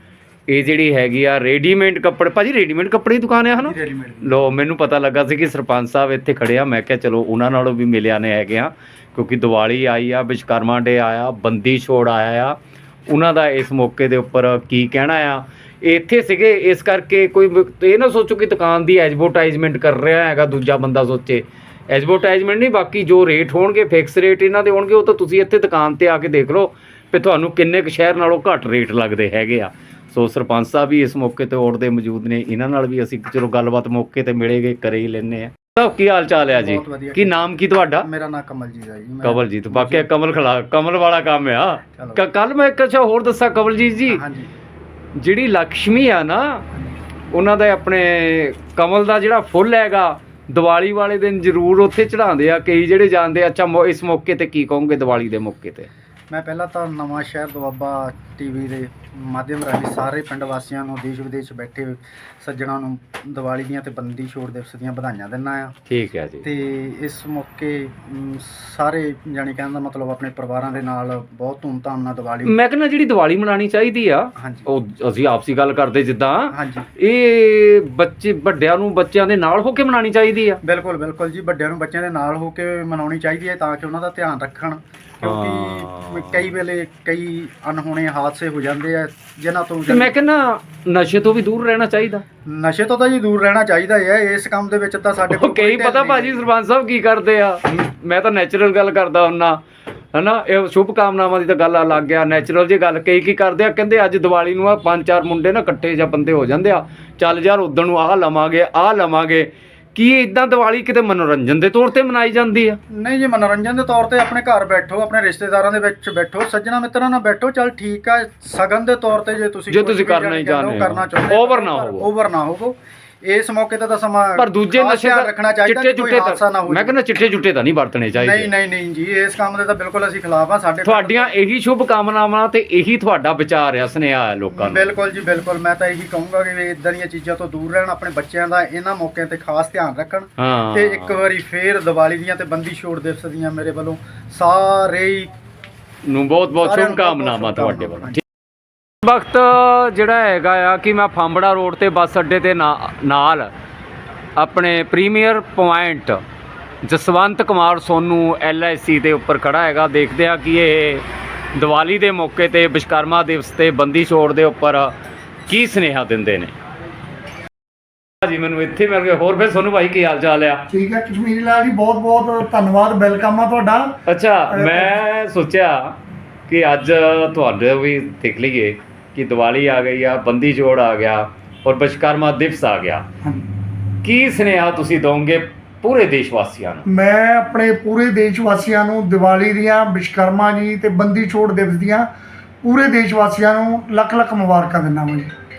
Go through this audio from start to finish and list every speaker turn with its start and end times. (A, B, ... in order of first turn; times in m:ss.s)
0:00.5-0:12.6 A
0:03.6-0:04.4 B
0:13.1-0:38.1 A
0:36.5-0:37.4 B
0:38.0-0:40.1 B
0:39.2-0:44.2 A
0:42.0-0:42.2 B
0:44.1-0:44.5 B
0:45.2-0:46.6 A
0:47.3-0:55.9 A
0:56.3-1:05.7 B
1:05.9-1:06.4 A
1:06.4-1:12.5 B
1:12.4-1:20.6 A
1:14.4-1:14.7 B
1:16.5-1:16.9 B
1:20.6-1:30.1 B
1:25.2-1:26.5 A
1:29.9-1:32.2 A
1:32.4-1:36.5 B
1:35.3-1:39.6 A
1:40.1-1:52.8 A
1:52.9-2:07.0 B
1:59.7-2:02.1 A
2:04.4-2:08.5 A
2:08.2-2:11.3 B
2:10.8-2:14.9 A
2:14.6-2:25.3 B
2:20.4-2:21.2 A
2:26.0-2:28.2 A
2:26.5-2:28.2 B
2:29.0-2:33.5 A
2:34.4-2:36.2 A
2:36.8-2:44.9 A
2:45.5-2:46.5 A
2:48.2-2:50.6 A
2:50.7-2:53.9 C
2:54.1-2:56.0 A
2:54.5-2:55.0 C
2:56.5-3:03.0 A
3:04.0-3:06.9 A
3:06.8-3:12.1 C
3:12.6-3:15.3 C